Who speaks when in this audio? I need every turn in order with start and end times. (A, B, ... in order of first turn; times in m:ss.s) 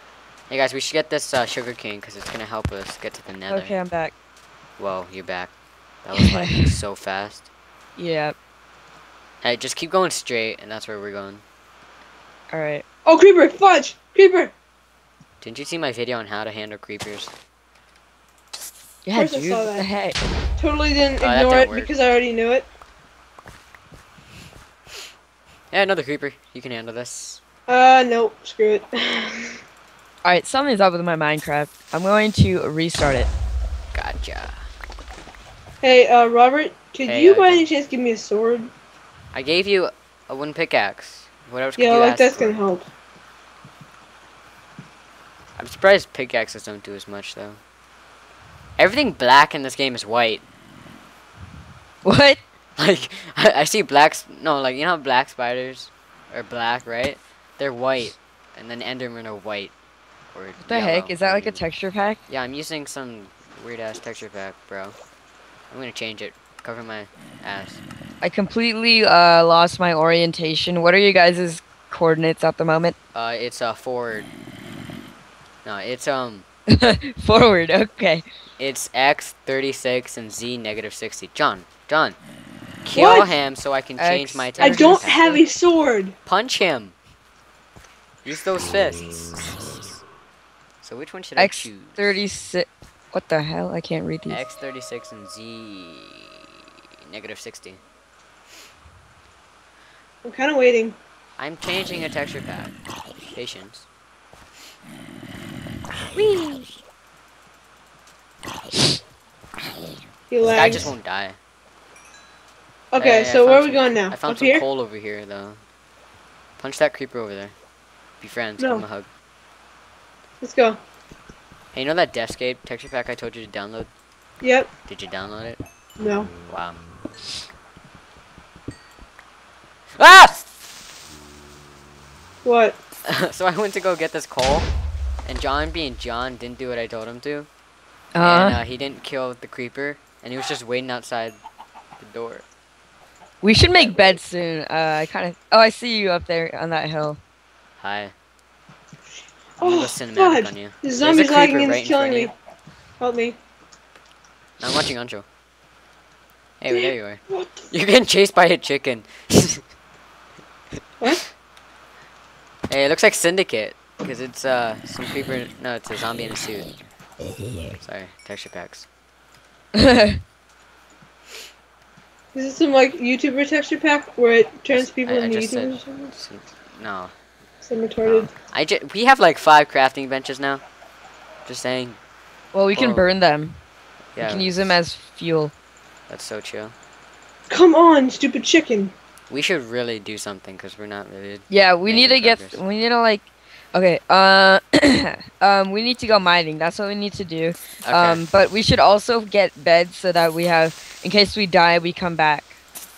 0:00.5-0:03.7 A
0:03.5-0:04.1 B
0:04.8-0:07.5 A
0:06.2-0:06.8 B
0:08.0-0:08.4 B
0:09.4-0:11.4 A
0:12.5-0:12.8 B
0:13.1-0:14.5 C
0:15.4-0:17.3 A
0:19.0-0:20.2 B
0:19.2-0:19.9 C
0:20.6-0:22.7 C
0:21.2-0:21.9 A
0:25.7-0:27.4 A
0:27.7-0:29.6 C
0:30.2-0:33.3 B
0:33.9-0:34.6 A
0:35.8-0:38.7 C
0:37.1-0:37.7 A
0:39.3-0:42.6 A
0:41.8-0:42.9 C
0:45.6-0:47.6 A
0:48.8-0:50.4 A
0:52.0-0:52.4 B
0:52.8-0:59.7 A
1:00.3-1:01.6 A
1:00.6-1:02.2 B
1:02.3-1:05.0 A
1:05.7-1:07.8 A
1:08.2-1:13.0 B
1:13.1-1:14.3 A
1:15.6-1:16.4 A
1:16.7-1:18.2 B
1:18.6-1:22.2 A
1:22.8-1:25.2 A
1:22.9-1:23.3 C
1:24.0-1:25.4 B
1:24.6-1:26.2 C
1:26.3-1:27.0 A
1:28.2-1:30.0 A
1:30.8-1:32.2 A
1:31.4-1:34.4 B
1:34.3-1:37.8 A
1:40.2-1:41.0 C
1:41.4-1:42.8 A
1:43.3-1:43.9 A
1:46.1-1:46.8 A
1:50.3-1:50.9 C
1:50.5-1:51.4 A
1:52.9-1:54.6 C
1:53.0-1:55.6 A
1:56.6-1:57.6 A
1:58.2-1:59.1 A
1:58.6-1:58.8 C
2:00.4-2:00.8 C
2:01.7-2:03.9 A
2:04.4-2:04.7 C
2:04.9-2:05.6 A
2:06.0-2:06.3 C
2:06.5-2:06.8 A
2:10.0-2:10.5 A
2:12.4-2:12.8 C
2:13.0-2:14.7 A
2:15.2-2:17.5 A
2:18.2-2:18.6 B
2:18.2-2:21.4 A
2:22.0-2:22.4 A
2:23.4-2:27.2 B
2:27.8-2:28.1 A
2:29.6-2:32.3 C
2:29.6-2:32.3 A
2:33.0-2:33.4 C
2:34.6-2:35.3 A
2:36.6-2:39.6 A
2:36.7-2:37.6 C
2:42.7-2:46.7 A
2:47.8-2:48.9 A
2:49.8-2:50.2 B
2:52.3-2:56.1 C
2:54.7-2:57.1 A
2:57.6-2:58.3 C
2:58.0-3:00.6 A
3:01.4-3:02.0 A
3:02.5-3:03.6 B
3:02.7-3:03.1 A
3:04.2-3:04.7 A
3:04.2-3:05.5 B
3:06.1-3:06.8 A
3:07.5-3:08.9 C
3:09.3-3:12.6 A
3:11.5-3:22.6 B
3:17.8-3:18.2 A